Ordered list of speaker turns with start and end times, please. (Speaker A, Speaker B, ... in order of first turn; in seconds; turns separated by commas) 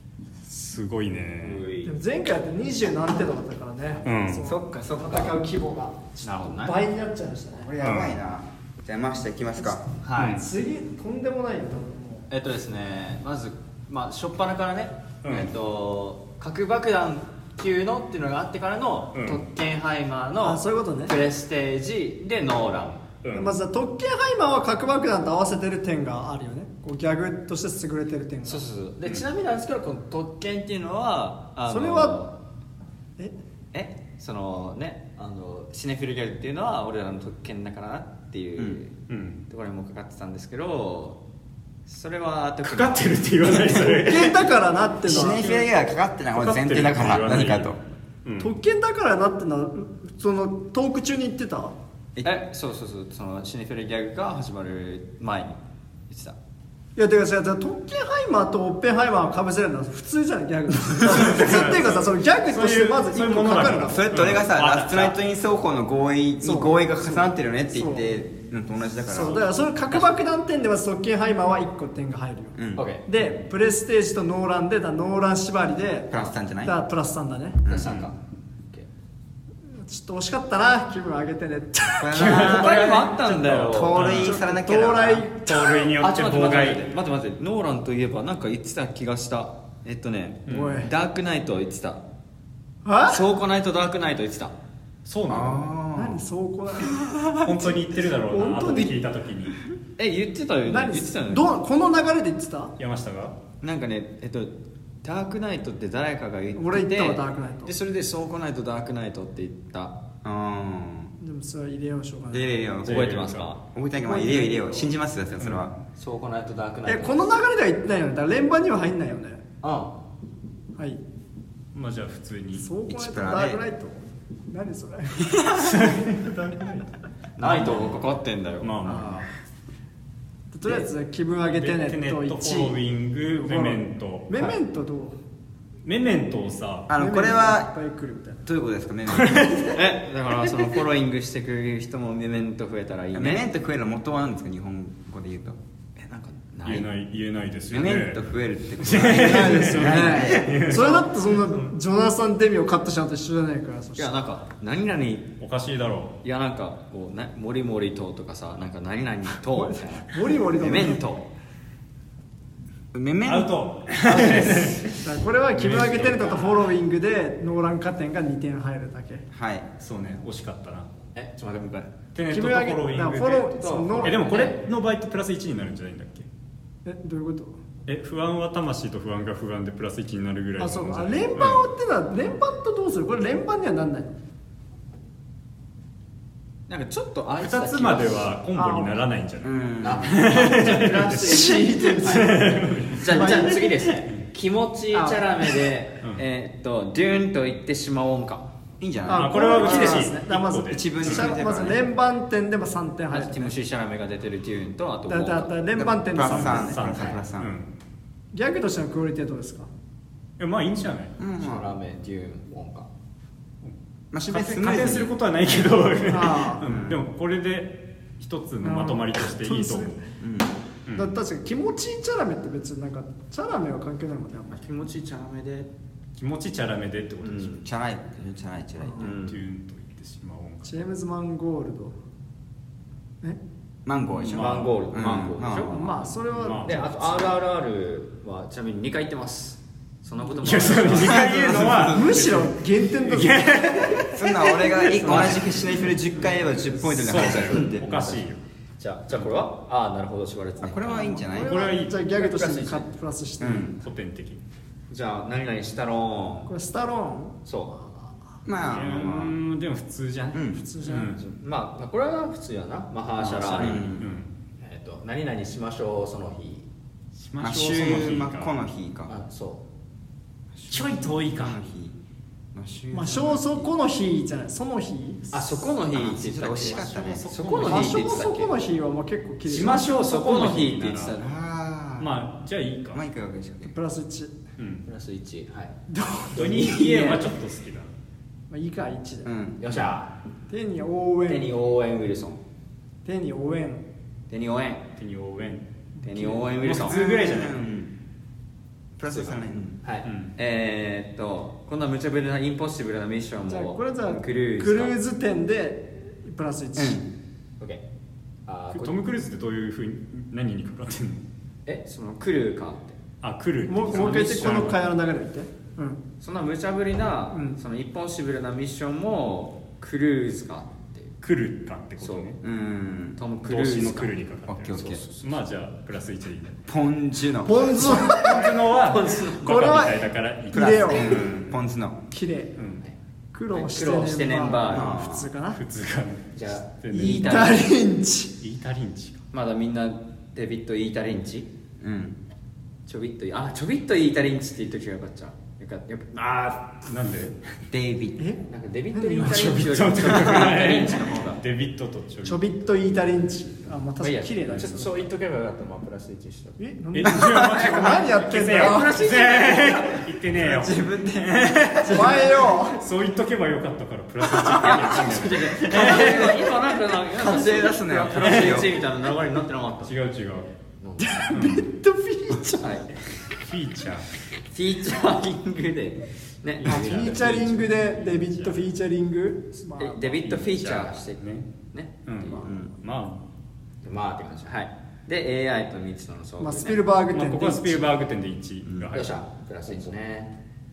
Speaker A: 0.5-1.6, Speaker B: 1.4-1.9, Speaker C: 1.8-7.7, Speaker A: 4.0-4.5, Speaker D: 4.4-5.4, Speaker B: 6.2-6.8, Speaker D: 7.6-9.8, Speaker A: 7.8-8.2, Speaker B: 10.0-10.4, Speaker A: 10.2-10.5, Speaker C: 10.3-12.3, Speaker B: 12.3-23.1, Speaker A: 15.2-15.5, Speaker A: 19.1-19.4, Speaker C: 20.4-21.1, Speaker A: 23.2-23.6, Speaker C: 23.3-28.6, Speaker B: 28.4-32.3, Speaker C: 31.7-32.2, Speaker B: 33.7-39.0, Speaker A: 39.1-39.4, Speaker B: 39.5-41.2, Speaker B: 41.9-43.7, Speaker A: 42.6-44.5, Speaker C: 43.8-45.6, Speaker D: 45.0-47.8, Speaker A: 46.3-48.5, Speaker C: 48.4-51.8, Speaker B: 52.2-56.4, Speaker C: 57.0-64.1, Speaker A: 61.0-65.1, Speaker D: 63.6-69.5, Speaker B: 64.4-65.1, Speaker C: 66.4-68.1, Speaker C: 69.1-77.6, Speaker D: 72.5-72.9, Speaker B: 72.8-73.0, Speaker D: 76.1-76.8, Speaker D: 77.7-78.0, Speaker B: 77.7-78.2, Speaker A: 77.8-78.1, Speaker C: 79.8-82.4, Speaker D: 82.0-82.9, Speaker A: 82.1-84.4, Speaker B: 82.2-84.1, Speaker D: 83.6-85.3, Speaker C: 84.2-85.9, Speaker A: 85.5-86.9, Speaker B: 86.0-92.0, Speaker A: 90.5-90.8, Speaker C: 90.5-90.9, Speaker C: 92.8-93.2, Speaker B: 93.1-94.5, Speaker A: 95.0-95.7, Speaker D: 95.3-96.2, Speaker C: 96.0-98.9, Speaker A: 97.4-99.6, Speaker B: 100.0-101.5, Speaker C: 100.7-102.8, Speaker A: 102.8-103.4, Speaker B: 103.6-104.5, Speaker B: 105.0-110.0, Speaker C: 106.6-107.7, Speaker D: 110.2-111.1, Speaker C: 111.2-112.6, Speaker D: 112.3-113.0, Speaker A: 112.8-113.5, Speaker B: 112.8-113.6, Speaker D: 113.7-115.7, Speaker C: 114.0-114.9, Speaker A: 115.4-115.7, Speaker B: 116.0-117.3, Speaker C: 116.9-119.4, Speaker B: 119.6-120.0, Speaker A: 121.7-122.7, Speaker C: 122.6-125.3, Speaker D: 122.9-123.6, Speaker D: 125.3-125.8, Speaker A: 125.6-126.8, Speaker B: 127.4-129.2, Speaker A: 127.4-128.0, Speaker A: 128.6-129.3, Speaker C: 130.5-132.8, Speaker A: 131.5-134.3, Speaker C: 133.4-135.2, Speaker A: 135.8-136.9, Speaker D: 136.9-137.7, Speaker C: 136.9-138.4, Speaker D: 138.4-139.7, Speaker B: 139.7-143.4, Speaker D: 143.1-145.6, Speaker B: 146.0-146.9, Speaker A: 146.7-148.2, Speaker D: 147.7-150.7, Speaker A: 148.8-151.7, Speaker C: 149.1-154.2, Speaker B: 154.0-155.3, Speaker A: 155.4-156.2, Speaker B: 156.2-161.2, Speaker C: 159.5-161.0, Speaker D: 162.9-163.5, Speaker A: 163.3-165.0, Speaker B: 164.1-164.8, Speaker C: 165.0-169.2, Speaker A: 165.5-166.6, Speaker D: 169.3-169.7, Speaker A: 169.8-170.9, Speaker B: 171.2-171.9, Speaker A: 172.1-173.5, Speaker C: 172.3-174.3, Speaker B: 173.5-174.6, Speaker A: 174.0-176.3, Speaker C: 176.8-177.6, Speaker A: 177.9-181.7, Speaker C: 180.6-184.2, Speaker B: 186.7-188.4, Speaker A: 187.4-193.4, Speaker C: 188.6-189.0, Speaker D: 189.4-190.3, Speaker B: 189.8-192.4, Speaker C: 191.2-192.4, Speaker B: 192.9-198.5, Speaker C: 193.1-193.7, Speaker C: 194.9-195.3, Speaker D: 198.8-201.8, Speaker C: 199.1-203.5, Speaker A: 199.1-201.3, Speaker B: 203.1-205.6, Speaker C: 205.1-206.8, Speaker D: 205.7-207.5, Speaker A: 206.2-207.7, Speaker B: 206.8-207.2, Speaker C: 208.3-209.7, Speaker A: 210.4-211.2, Speaker D: 211.2-211.7, Speaker B: 211.4-212.9, Speaker A: 213.6-220.0, Speaker D: 214.1-215.9, Speaker C: 216.1-216.6, Speaker D: 216.7-217.0, Speaker C: 218.6-220.0, Speaker D: 220.2-220.6, Speaker A: 220.9-221.2, Speaker C: 221.0-224.6, Speaker B: 224.5-225.7, Speaker A: 226.2-227.6, Speaker B: 227.2-227.6, Speaker D: 227.6-229.1, Speaker B: 229.0-229.4, Speaker A: 229.0-230.8, Speaker C: 230.7-232.0, Speaker D: 233.9-235.9, Speaker B: 234.2-235.7, Speaker A: 234.2-236.9, Speaker C: 235.7-237.3, Speaker B: 236.6-242.3, Speaker A: 240.4-245.9, Speaker D: 240.9-242.2, Speaker C: 241.9-243.9, Speaker D: 244.0-247.9, Speaker B: 246.7-248.3, Speaker A: 246.9-248.4, Speaker B: 248.8-251.2, Speaker D: 250.6-251.7, Speaker C: 251.2-253.7, Speaker A: 251.3-252.8, Speaker D: 253.4-253.8, Speaker A: 253.8-254.4, Speaker B: 254.9-256.5, Speaker C: 256.5-257.4, Speaker B: 257.5-257.8, Speaker D: 258.4-259.4, Speaker A: 258.6-261.2, Speaker D: 260.3-260.6, Speaker C: 260.5-261.1, Speaker B: 261.2-263.9, Speaker A: 263.3-264.3, Speaker D: 263.4-264.1, Speaker B: 264.6-266.7, Speaker A: 267.2-268.6, Speaker D: 267.4-269.1, Speaker B: 269.1-269.6, Speaker D: 270.5-272.0, Speaker A: 270.7-271.6, Speaker D: 272.5-273.7, Speaker C: 272.9-275.6, Speaker B: 275.3-278.5, Speaker D: 275.9-277.3, Speaker A: 276.7-278.0, Speaker C: 277.6-279.9, Speaker A: 279.5-281.2, Speaker B: 279.5-281.3, Speaker D: 281.2-282.1, Speaker A: 282.0-283.0, Speaker D: 282.9-283.7, Speaker C: 283.6-284.3, Speaker A: 284.6-284.9, Speaker B: 284.9-285.8, Speaker C: 285.9-286.6, Speaker B: 286.4-287.3, Speaker A: 286.4-287.9, Speaker C: 288.5-289.3, Speaker D: 289.2-289.6, Speaker B: 289.6-290.1, Speaker C: 290.5-291.5, Speaker B: 291.3-292.4, Speaker C: 293.1-293.8, Speaker B: 294.3-294.9, Speaker A: 295.0-295.7, Speaker C: 296.0-296.4, Speaker B: 296.0-297.0, Speaker A: 296.6-297.6, Speaker D: 296.9-297.9, Speaker D: 299.0-299.8, Speaker B: 299.1-304.9, Speaker A: 300.1-300.3, Speaker C: 303.5-307.0, Speaker D: 306.8-307.1, Speaker B: 308.5-309.0, Speaker A: 308.7-311.2, Speaker B: 311.7-313.0, Speaker A: 313.2-314.9, Speaker C: 313.7-316.0, Speaker B: 316.2-321.2, Speaker C: 317.3-317.6, Speaker A: 321.2-322.4, Speaker B: 322.0-322.3, Speaker D: 322.4-323.2, Speaker B: 323.2-324.2, Speaker A: 323.4-326.6, Speaker D: 324.5-325.0, Speaker B: 325.0-325.4, Speaker D: 326.7-328.0, Speaker C: 327.4-328.5, Speaker A: 327.8-331.3, Speaker B: 328.1-330.0, Speaker C: 329.5-331.3, Speaker D: 330.5-332.0, Speaker C: 332.1-332.5, Speaker A: 332.6-332.8, Speaker C: 333.3-335.6, Speaker B: 333.5-334.9, Speaker D: 334.7-335.3, Speaker A: 335.6-337.7, Speaker B: 336.4-337.6, Speaker C: 336.9-338.3, Speaker A: 338.4-339.2, Speaker B: 339.3-341.5, Speaker D: 341.8-342.2, Speaker B: 342.9-346.6, Speaker A: 346.3-347.4, Speaker D: 347.7-348.2, Speaker B: 348.5-351.4, Speaker C: 348.9-349.4, Speaker A: 349.1-352.4, Speaker C: 352.2-354.9, Speaker B: 354.0-356.6, Speaker A: 354.5-354.8, Speaker C: 356.6-358.9, Speaker A: 356.9-360.9, Speaker D: 357.2-357.5, Speaker B: 357.7-360.0, Speaker D: 360.3-362.3, Speaker A: 361.5-366.4, Speaker C: 361.9-362.8, Speaker D: 364.2-366.5, Speaker B: 364.5-369.9, Speaker D: 367.1-368.8, Speaker A: 368.2-368.6, Speaker A: 369.8-370.5, Speaker B: 370.8-371.2, Speaker C: 371.0-372.8, Speaker A: 371.3-371.6, Speaker B: 372.6-372.9, Speaker A: 373.4-374.1, Speaker B: 374.5-377.3, Speaker A: 376.6-378.7, Speaker C: 376.6-380.2, Speaker B: 379.8-382.6, Speaker A: 380.2-381.5, Speaker A: 382.1-383.2, Speaker B: 383.8-386.8, Speaker C: 386.4-387.9, Speaker A: 387.1-389.2, Speaker D: 388.6-388.9, Speaker B: 388.9-390.3